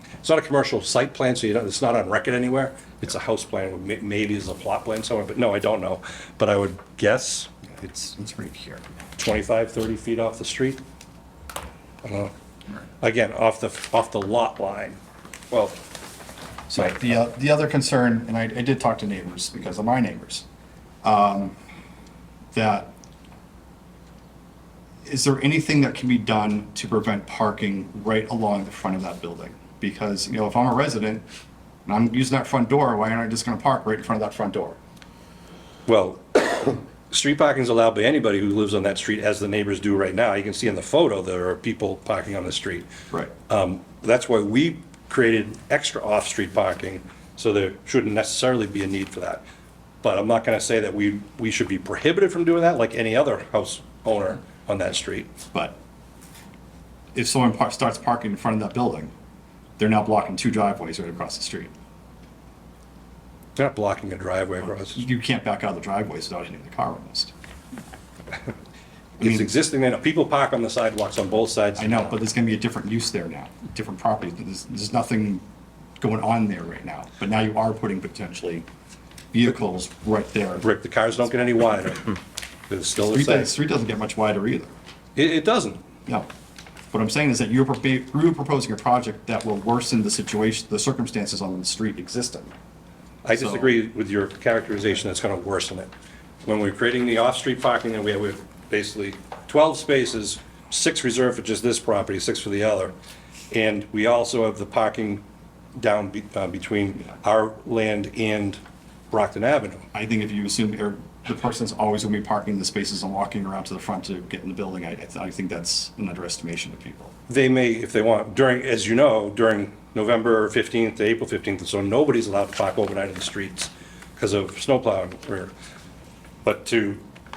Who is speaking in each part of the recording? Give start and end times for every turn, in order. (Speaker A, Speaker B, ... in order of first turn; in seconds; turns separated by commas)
Speaker A: 0.2-7.5, Speaker B: 7.7-8.8, Speaker A: 9.2-10.8, Speaker A: 12.0-12.3, Speaker A: 13.0-15.0, Speaker A: 15.5-15.8, Speaker B: 16.7-20.4, Speaker B: 21.0-21.6, Speaker B: 22.5-22.9, Speaker B: 25.0-31.2, Speaker B: 31.9-34.8, Speaker A: 35.9-42.9, Speaker A: 43.5-49.4, Speaker A: 50.0-55.3, Speaker B: 55.5-55.8, Speaker B: 57.1-59.1, Speaker B: 59.8-61.7, Speaker A: 63.5-65.0, Speaker B: 64.7-67.3, Speaker A: 69.2-72.1, Speaker B: 69.2-69.5, Speaker B: 71.8-75.4, Speaker B: 76.0-78.7, Speaker B: 79.3-80.7, Speaker A: 80.6-82.2, Speaker A: 82.7-83.5, Speaker B: 83.0-84.7, Speaker A: 85.2-85.8, Speaker B: 86.9-92.5, Speaker A: 93.2-95.9, Speaker B: 93.3-93.7, Speaker A: 96.4-102.9, Speaker A: 103.5-105.2, Speaker A: 105.8-108.6, Speaker A: 109.1-109.8, Speaker B: 109.9-117.1, Speaker A: 117.3-125.5, Speaker A: 126.4-127.0